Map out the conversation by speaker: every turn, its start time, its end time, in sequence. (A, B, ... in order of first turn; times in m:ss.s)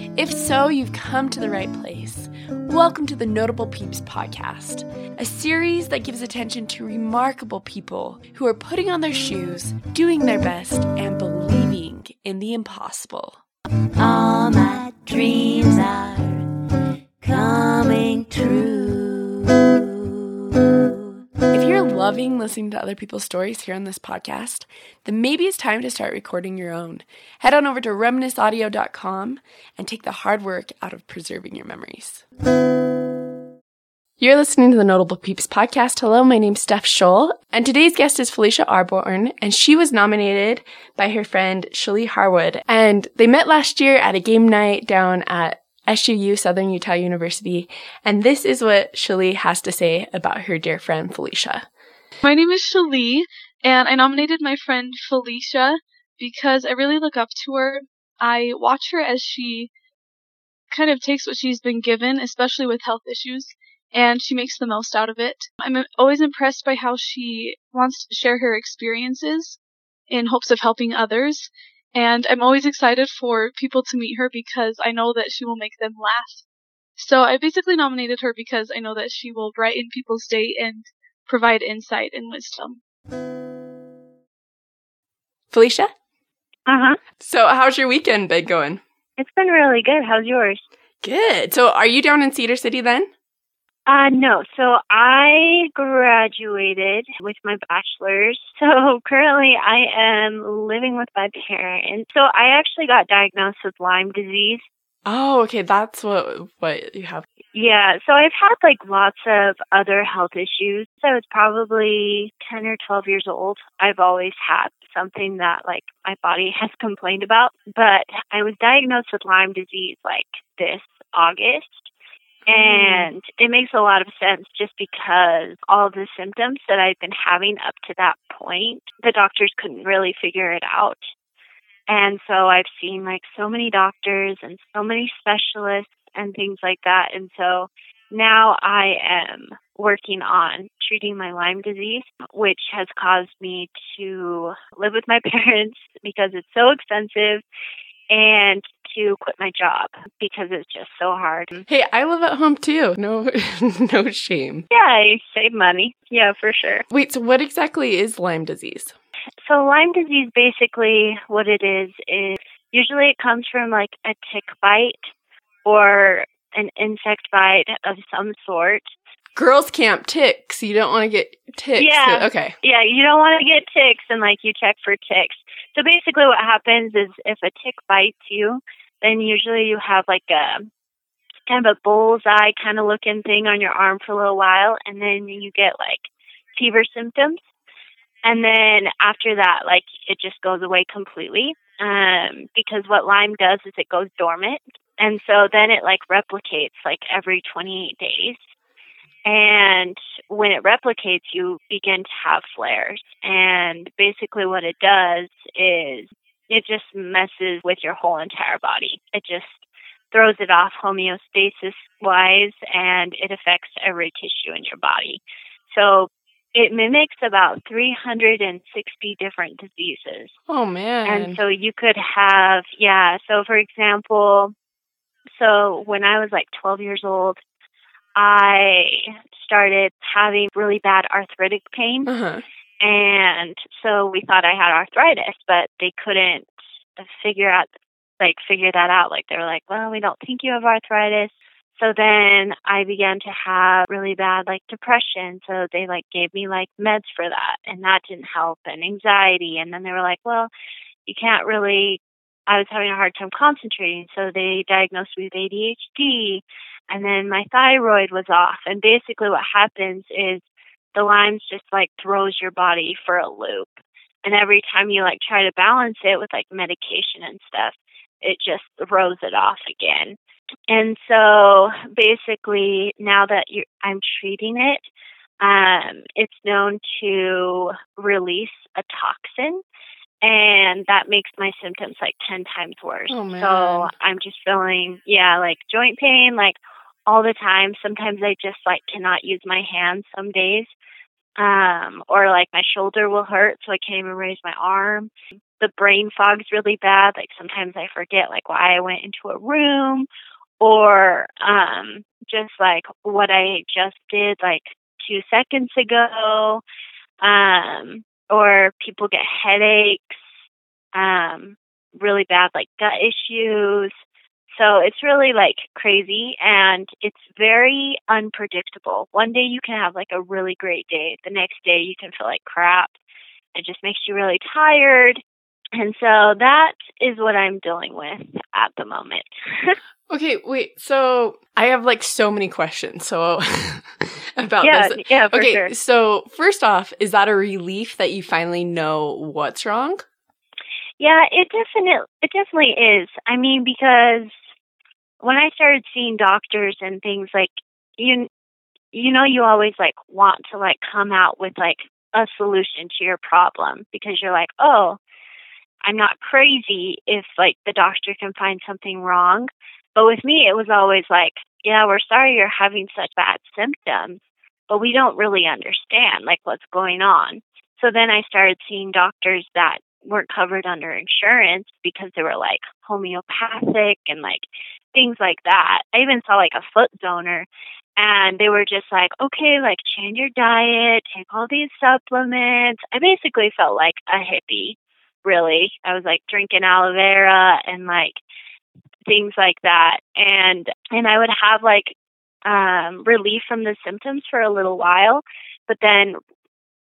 0:00.2-0:13.4 A
0:14.0-0:16.5 B
0:17.2-0:21.1 B
0:21.5-0:32.2 A
0:34.2-0:51.7 A
0:52.2-0:59.7 C
1:00.7-1:16.4 C
1:17.0-1:22.8 C
1:25.5-1:25.9 A
1:26.7-1:27.0 D
1:27.2-1:28.8 A
1:29.2-1:30.6 D
1:31.0-1:33.1 A
1:33.9-1:44.7 D
1:45.1-1:47.3 A
1:47.5-2:01.9 D
2:02.5-2:03.1 A
2:02.5-2:11.0 D
2:11.9-2:27.4 D
2:28.1-2:31.7 D
2:31.7-2:34.7 A
2:34.7-2:36.8 D
2:36.9-2:39.0 A
2:39.4-2:45.1 D
2:45.6-2:48.9 D
2:49.4-2:52.6 A
2:51.8-3:00.7 D
3:01.5-3:07.4 D
3:08.2-3:18.4 D
3:19.3-3:40.4 D
3:40.5-3:41.4 A
3:41.0-3:44.6 D
3:45.3-3:47.4 D
3:48.2-3:52.1 D
3:52.1-3:52.4 A
3:52.8-3:57.7 D
3:58.2-4:10.5 D
4:11.1-4:30.2 D
4:30.7-4:34.9 D
4:35.4-4:39.6 D
4:40.2-4:50.7 D
4:43.1-4:43.9 A
4:51.4-5:00.1 D
5:00.6-5:06.6 D
5:07.2-5:10.3 D
5:10.9-5:14.0 D
5:14.5-5:23.0 D
5:23.6-5:25.2 D
5:25.8-5:29.8 D
5:30.1-5:40.0 A
5:34.6-5:35.7 D
5:41.0-5:44.4 D
5:45.2-5:48.3 D
5:48.9-5:55.0 D
5:55.8-6:28.2 D
6:29.1-6:32.0 D
6:32.5-6:36.2 D